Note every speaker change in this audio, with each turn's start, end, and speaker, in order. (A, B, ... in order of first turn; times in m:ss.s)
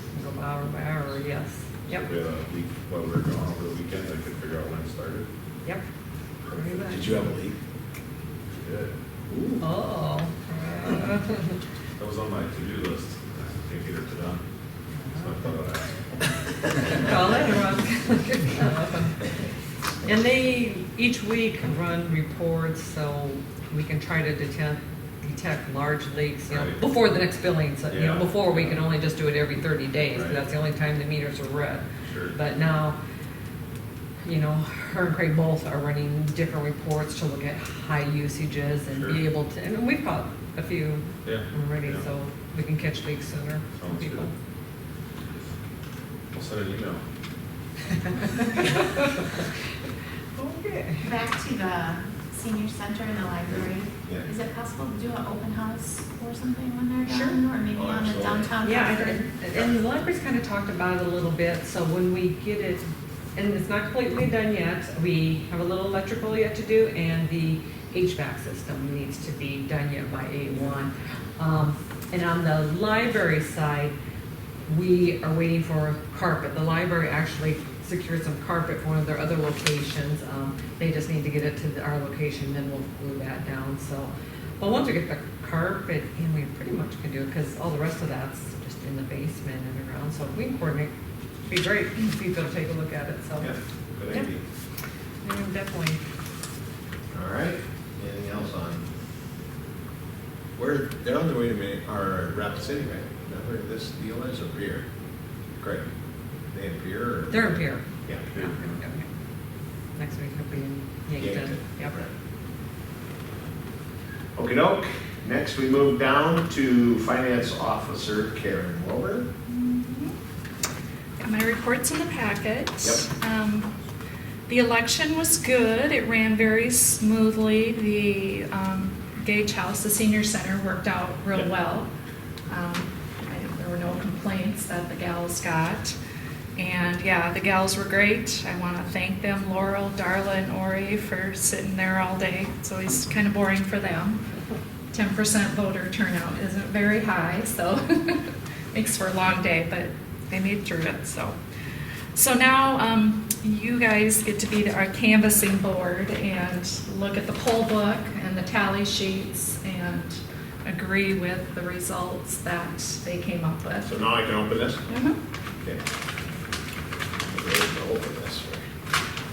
0:00.1-0:02.1 A
0:01.9-0:05.3 B
0:06.5-0:07.3 A
0:06.9-0:07.6 C
0:08.6-0:08.9 B
0:09.3-0:09.6 C
0:09.6-0:11.6 A
0:12.0-0:14.4 B
0:15.0-0:15.3 A
0:15.2-0:15.8 B
0:16.8-0:19.3 A
0:20.0-0:33.0 A
0:26.5-0:26.8 B
0:27.9-0:28.8 B
0:30.1-0:30.4 B
0:32.0-0:32.3 B
0:34.2-0:44.3 A
0:38.9-0:39.2 B
0:41.2-0:42.0 B
0:43.8-0:44.3 B
0:46.3-0:47.0 B
0:48.6-0:49.0 A
0:50.4-0:51.0 A
0:51.0-0:59.2 D
0:57.1-0:57.4 A
0:57.7-0:58.6 C
0:58.6-1:13.9 A
1:14.6-1:30.9 A
1:31.5-1:33.5 A
1:33.4-1:34.4 C
1:35.2-1:36.0 A
1:37.1-1:38.8 C
1:40.6-1:44.8 C
1:45.6-1:45.9 C
1:46.5-1:48.3 C
1:47.3-1:49.1 A
1:50.0-1:51.9 A
1:51.2-1:52.1 C
1:54.4-1:59.3 C
1:59.5-2:00.1 E
2:01.2-2:03.7 E
2:04.5-2:11.9 E
2:12.5-2:16.0 E
2:16.6-2:24.2 E
2:24.9-2:31.4 E
2:32.1-2:43.9 E
2:43.9-2:44.8 C
2:44.9-2:45.2 E
2:47.3-2:48.6 C